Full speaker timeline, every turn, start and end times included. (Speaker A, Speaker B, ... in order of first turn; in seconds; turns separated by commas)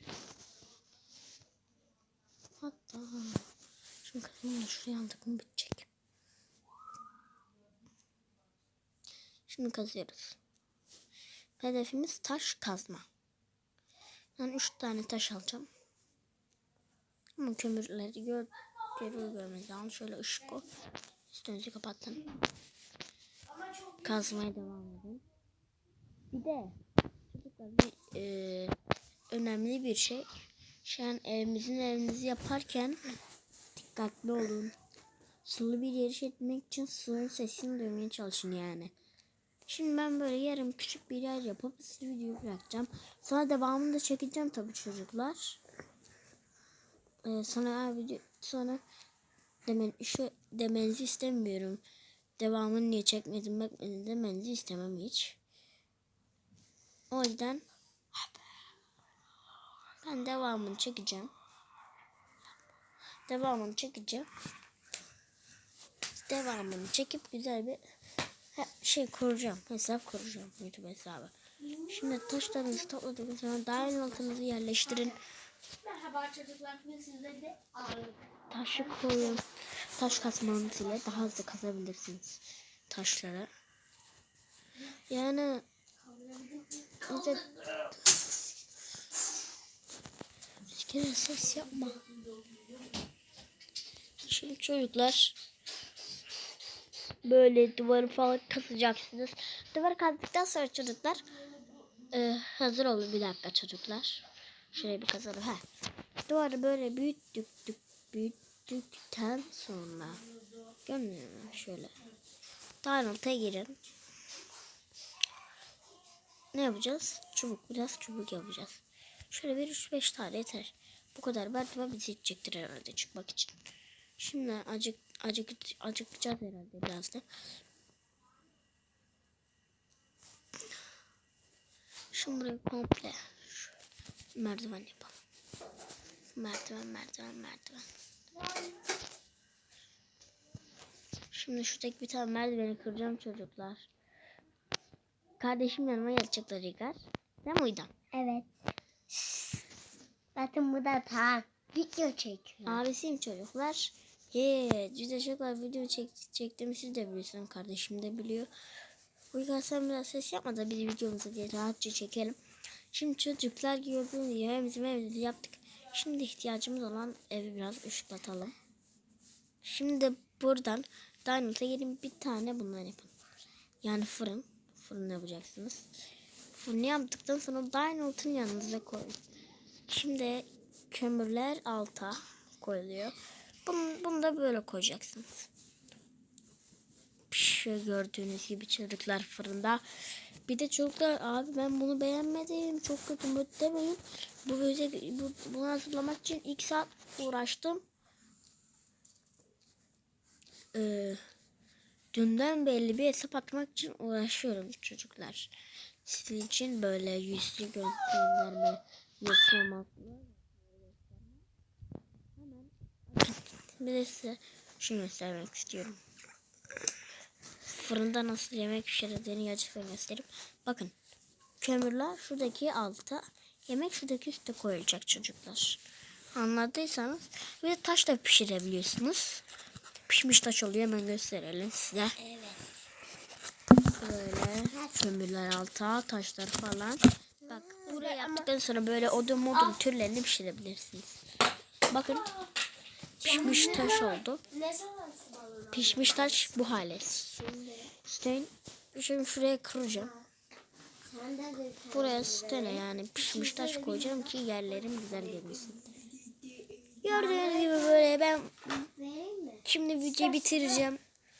Speaker A: 2.6-3.5, Speaker A: 4.0-5.9, Speaker A: 9.5-10.4, Speaker A: 11.6-13.1, Speaker A: 14.4-15.7, Speaker A: 17.4-20.7, Speaker A: 21.3-22.3, Speaker A: 24.0-25.2, Speaker A: 26.3-26.8, Speaker A: 27.3-28.8, Speaker A: 29.3-30.3, Speaker A: 30.8-33.0, Speaker A: 33.8-34.7, Speaker A: 35.4-38.9, Speaker A: 39.7-45.6, Speaker A: 47.2-48.8, Speaker A: 49.6-51.8, Speaker A: 52.4-55.4, Speaker A: 57.1-57.6, Speaker A: 60.0-61.3, Speaker A: 63.3-64.3, Speaker A: 66.2-67.8, Speaker A: 68.5-75.2, Speaker B: 75.9-78.2, Speaker A: 78.5-83.5, Speaker A: 85.1-85.7, Speaker A: 87.0-88.0, Speaker A: 90.6-92.0, Speaker A: 94.2-95.4, Speaker A: 97.2-101.2, Speaker A: 102.1-105.7, Speaker A: 106.3-110.2, Speaker A: 110.8-111.9, Speaker A: 112.8-113.8, Speaker A: 116.5-123.5, Speaker A: 124.2-127.3, Speaker A: 132.1-133.8, Speaker A: 134.3-135.2, Speaker A: 136.3-137.9, Speaker A: 141.3-143.9, Speaker A: 145.4-147.9, Speaker B: 148.1-148.5, Speaker B: 149.1-149.6, Speaker B: 150.3-152.8, Speaker A: 152.7-158.5, Speaker A: 159.3-162.4, Speaker A: 162.9-168.6, Speaker A: 169.6-173.1, Speaker A: 173.8-175.9, Speaker A: 176.6-179.2, Speaker A: 179.9-185.5, Speaker A: 187.3-189.8, Speaker A: 190.5-197.8, Speaker A: 200.7-201.2, Speaker A: 202.1-205.5, Speaker A: 206.1-211.4, Speaker A: 212.4-216.0, Speaker A: 217.7-221.0, Speaker A: 221.6-225.8, Speaker A: 226.3-229.4, Speaker A: 230.1-232.2, Speaker B: 232.2-232.7, Speaker A: 233.9-241.2, Speaker B: 237.4-238.5, Speaker A: 241.9-242.3, Speaker B: 243.2-246.6, Speaker A: 243.2-244.4, Speaker A: 245.7-247.4, Speaker B: 247.3-247.9, Speaker A: 248.0-250.2, Speaker B: 251.0-254.3, Speaker A: 251.9-255.9, Speaker B: 256.5-258.1, Speaker A: 257.0-258.9, Speaker B: 258.9-259.6, Speaker A: 259.6-261.0, Speaker B: 260.2-260.9